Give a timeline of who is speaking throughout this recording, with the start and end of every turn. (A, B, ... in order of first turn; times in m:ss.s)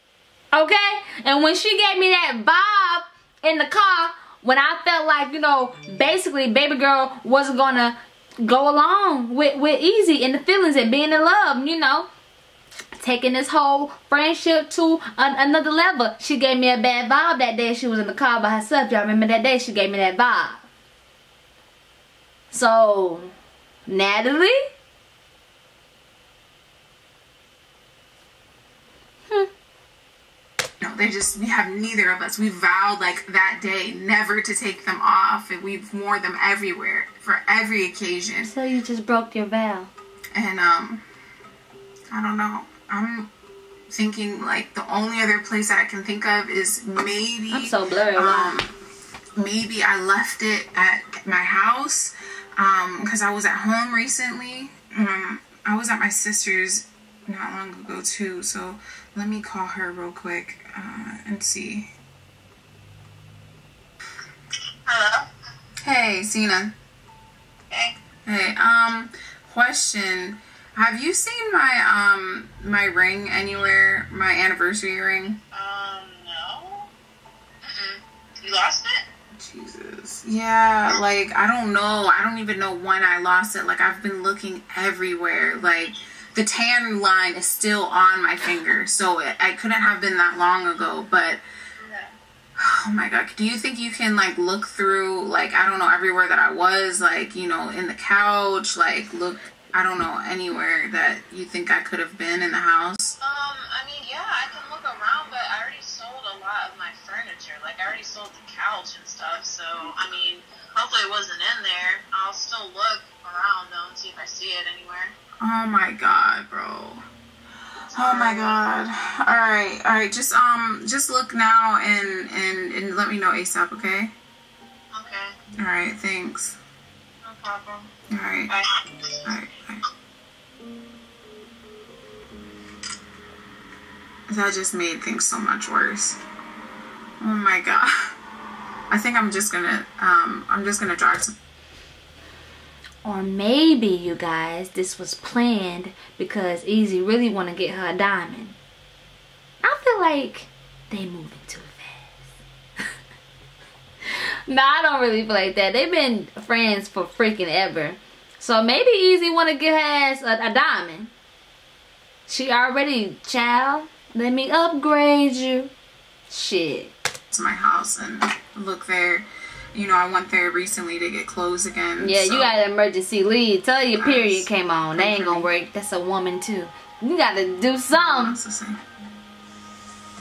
0:00.5-0:12.1 A
0:13.0-0:20.6 A
0:22.5-0:23.3 A
0:23.9-0:24.6 A
0:30.8-0:38.5 B
0:38.4-0:39.9 A
0:40.3-0:41.0 B
0:42.1-0:43.3 B
0:43.9-0:48.7 B
0:47.5-0:48.6 A
0:49.4-1:01.9 B
1:04.8-1:05.2 C
1:05.8-1:06.7 B
1:07.7-1:08.0 C
1:08.2-1:15.4 B
1:15.5-1:16.9 C
1:17.6-1:19.0 C
1:19.4-1:31.4 B
1:31.8-1:32.1 C
1:32.6-1:43.2 B
1:43.2-1:55.1 C
1:55.4-1:57.0 B
1:57.9-2:04.1 B
1:57.9-1:58.6 C
2:04.9-2:05.3 C
2:05.6-2:06.6 B
2:07.2-2:07.9 C
2:08.1-2:08.5 B
2:08.5-2:08.8 C
2:09.2-2:09.8 B
2:14.3-2:16.2 B
2:17.2-2:18.1 B
2:18.9-2:21.3 B
2:23.0-2:28.6 A
2:29.6-2:32.2 A
2:34.1-2:41.1 A
2:42.3-2:45.7 A
2:46.3-2:46.9 A
2:47.3-2:52.6 B
2:52.0-2:58.4 A
2:53.9-2:55.5 B
2:57.9-2:58.8 B